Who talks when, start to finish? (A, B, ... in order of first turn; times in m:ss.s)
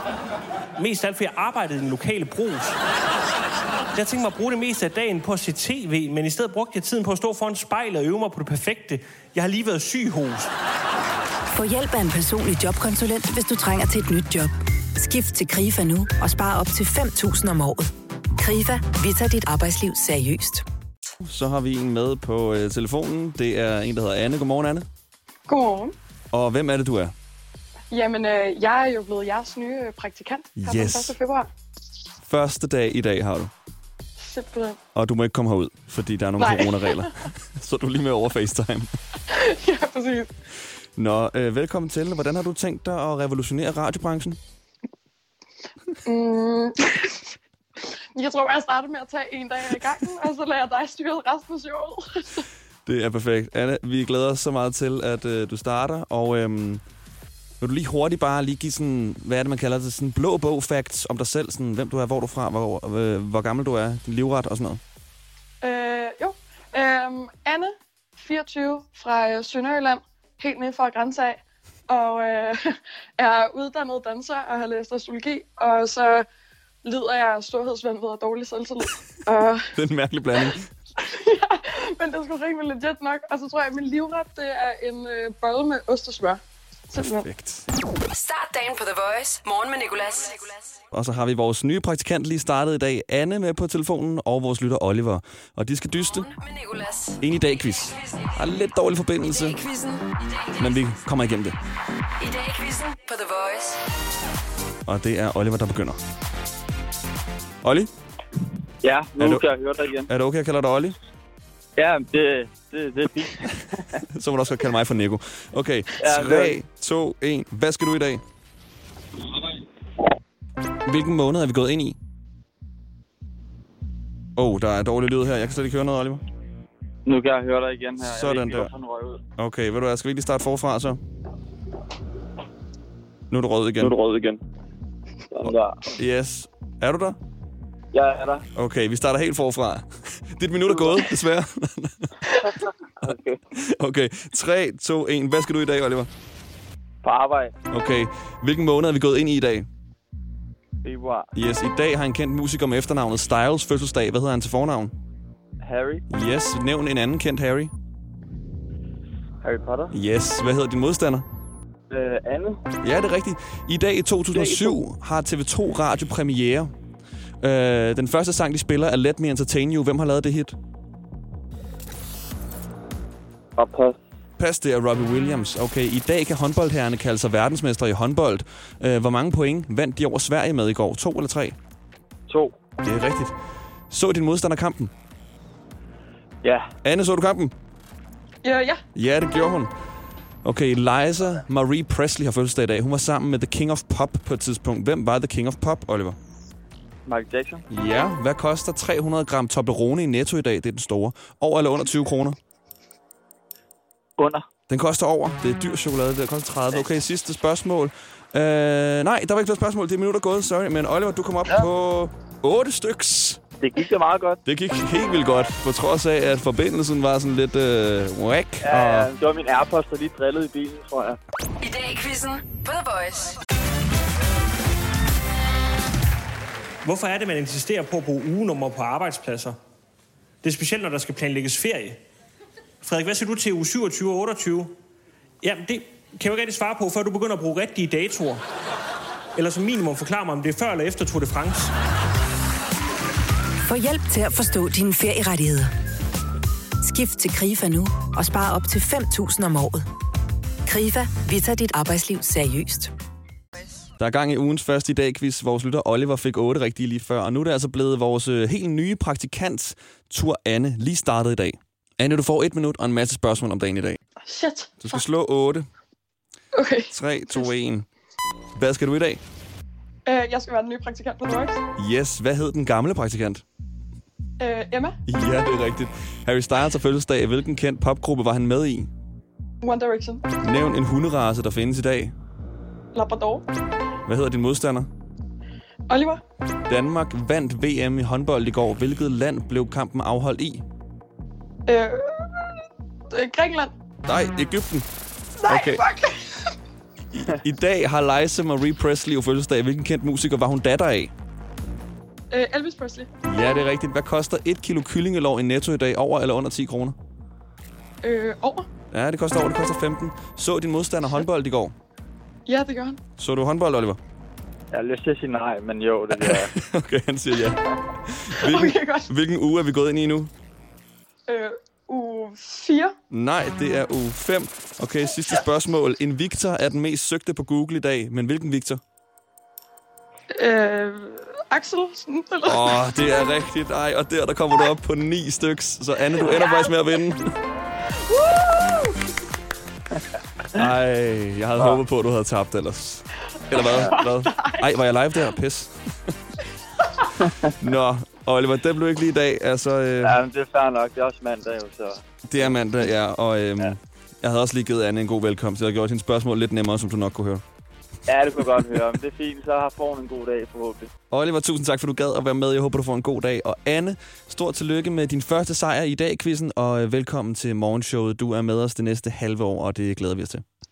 0:00.8-0:02.7 A
0:04.0-0:10.5 A
0:11.5-0:20.6 B
0:21.2-0:24.9 C
0:25.5-0:26.0 D
0:26.3-0:27.1 C
0:27.9-0:31.5 D
0:30.6-0:31.2 C
0:32.2-0:33.5 C
0:34.2-0:34.8 D
0:35.0-0:38.9 C
0:36.4-0:37.1 D
0:39.3-0:40.3 D
0:41.0-0:44.4 C
0:46.1-0:47.4 D
0:48.2-0:52.4 D
0:52.9-0:56.8 C
0:57.6-1:04.8 C
1:05.6-1:16.2 D
1:16.8-1:19.7 D
1:19.8-1:20.7 C
1:20.4-1:27.3 D
1:27.0-1:27.6 C
1:28.1-1:30.8 E
1:30.9-1:36.3 C
1:36.1-1:38.4 E
1:37.2-1:39.6 C
1:39.2-1:40.8 E
1:40.6-1:41.6 C
1:42.2-1:43.8 E
1:44.9-1:46.0 C
1:47.6-1:47.9 C
1:48.8-1:50.1 F
1:49.2-1:49.5 C
1:50.1-1:51.0 C
1:51.8-1:53.5 F
1:54.1-1:58.2 C
1:56.0-1:56.6 F
2:00.9-2:02.0 C
2:04.4-2:06.2 C
2:07.1-2:09.2 F
2:08.0-2:08.7 C
2:09.4-2:11.0 C
2:13.3-2:14.0 C
2:13.8-2:14.4 F
2:15.3-2:15.9 F
2:16.0-2:17.2 C
2:17.9-2:18.4 F
2:18.6-2:22.1 C
2:20.7-2:21.0 F
2:23.0-2:23.4 F
2:23.6-2:26.1 C
2:27.0-2:27.5 F
2:27.7-2:29.7 C
2:30.8-2:31.3 F
2:31.4-2:34.9 C
2:35.6-2:36.0 F
2:36.1-2:37.7 C
2:39.4-2:39.9 F
2:39.9-2:41.3 C
2:41.9-2:42.6 F
2:42.8-2:46.7 C
2:44.3-2:44.8 F
2:47.4-2:50.6 C
2:53.6-2:54.0 F
2:54.4-3:01.6 C
3:02.3-3:02.6 F
3:02.8-3:03.3 C
3:03.9-3:04.9 C
3:06.4-3:06.7 F
3:06.8-3:07.5 C
3:08.4-3:08.8 D
3:09.0-3:09.7 C
3:10.4-3:16.2 C
3:17.1-3:17.6 F
3:17.7-3:22.4 C
3:24.2-3:24.5 F
3:24.7-3:33.4 C
3:33.6-3:34.4 F
3:34.5-3:39.1 C
3:38.6-3:41.2 F
3:41.6-3:43.4 E
3:46.9-3:49.5 A
3:50.4-3:52.0 A
3:52.8-3:54.7 A
3:55.4-3:58.4 A
3:59.4-4:01.7 A
4:03.6-4:05.7 B
4:06.8-4:09.9 B
4:10.7-4:12.9 B
4:14.0-4:24.0 C
4:24.2-4:25.0 D
4:24.8-4:25.7 C
4:26.5-4:27.5 D
4:26.9-4:27.9 C
4:28.6-4:29.2 C
4:30.1-4:31.6 D
4:31.8-4:33.4 C
4:34.4-4:35.0 D
4:35.1-4:38.9 C
4:39.6-4:40.2 D
4:40.4-4:42.1 C
4:42.9-4:43.5 D
4:44.1-4:44.9 C
4:45.9-4:46.2 D
4:46.7-4:50.6 C
4:51.7-4:53.7 D
4:54.1-4:54.9 C
4:55.4-4:56.6 D
4:55.5-4:55.8 C
4:57.1-5:01.1 C
5:02.3-5:03.1 D
5:03.3-5:07.0 C
5:08.0-5:08.7 D
5:08.9-5:11.8 C
5:12.5-5:13.0 D
5:13.2-5:14.0 C
5:14.7-5:16.5 F
5:16.2-5:20.3 C
5:18.4-5:19.1 D
5:21.3-5:23.0 D
5:23.1-5:28.8 C
5:30.3-5:32.9 D
5:32.5-5:37.3 C
5:36.3-5:36.7 D
5:38.1-5:39.0 D
5:40.6-5:46.2 C
5:43.5-5:44.8 D
5:47.2-5:47.5 F
5:47.6-5:50.2 C
5:50.0-5:52.0 F
5:52.3-5:57.4 C
5:58.1-6:00.9 F
5:58.4-5:58.8 C
6:01.1-6:10.4 C